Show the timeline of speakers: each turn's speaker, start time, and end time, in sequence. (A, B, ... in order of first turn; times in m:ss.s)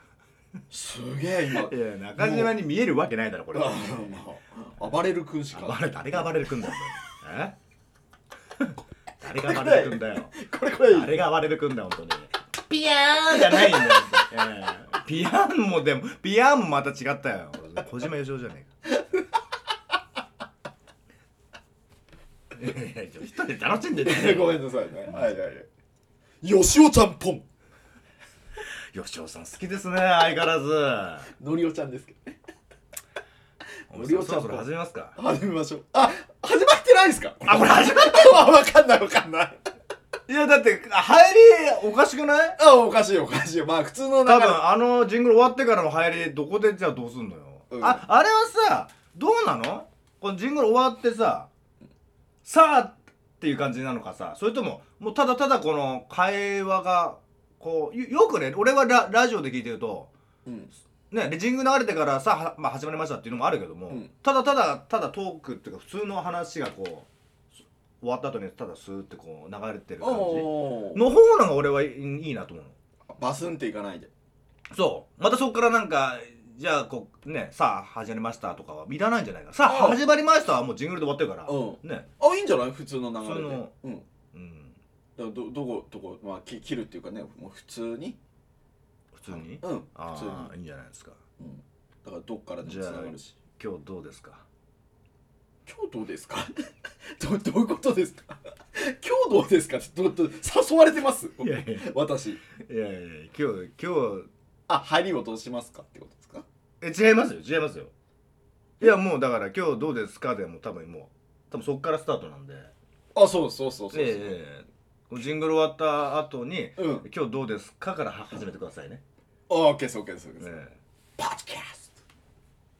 0:00.7-0:02.5 A
0:01.5-0:04.2 B
0:03.5-0:06.8 A
0:05.5-0:07.6 B
0:09.2-0:18.7 B
0:09.3-0:11.2 A
0:13.3-0:14.3 A
0:18.9-0:19.2 A
0:22.5-0:25.2 B
0:24.0-0:25.7 A
0:26.4-0:27.4 A
0:28.6-0:31.3 B
0:31.3-0:32.4 A
0:33.9-0:39.6 A
0:33.9-0:35.1 B
0:37.4-0:38.4 B
0:40.3-0:42.6 B
0:42.6-0:44.6 A
0:44.2-0:51.5 B
0:47.7-0:48.0 A
0:52.4-1:00.1 B
1:00.4-1:00.7 A
1:01.1-1:07.1 B
1:08.0-1:12.7 B
1:10.0-1:11.0 A
1:13.1-1:14.1 A
1:14.7-1:22.1 B
1:19.6-1:20.0 A
1:21.4-1:24.1 A
1:23.2-1:23.7 B
1:24.3-1:24.8 B
1:25.2-1:28.2 A
1:29.1-1:31.2 B
1:29.3-1:30.5 A
1:31.4-1:33.4 A
1:32.6-1:34.4 B
1:35.6-1:36.5 A
1:37.2-1:42.4 A
1:41.4-1:41.9 B
1:42.6-1:44.3 B
1:44.7-1:46.4 A
1:46.8-1:47.9 B
1:48.8-1:52.7 B
1:53.1-1:54.4 A
1:53.9-1:59.0 B
1:56.8-1:57.0 A
1:59.5-2:00.6 A
2:00.4-2:00.8 B
2:01.2-2:01.9 A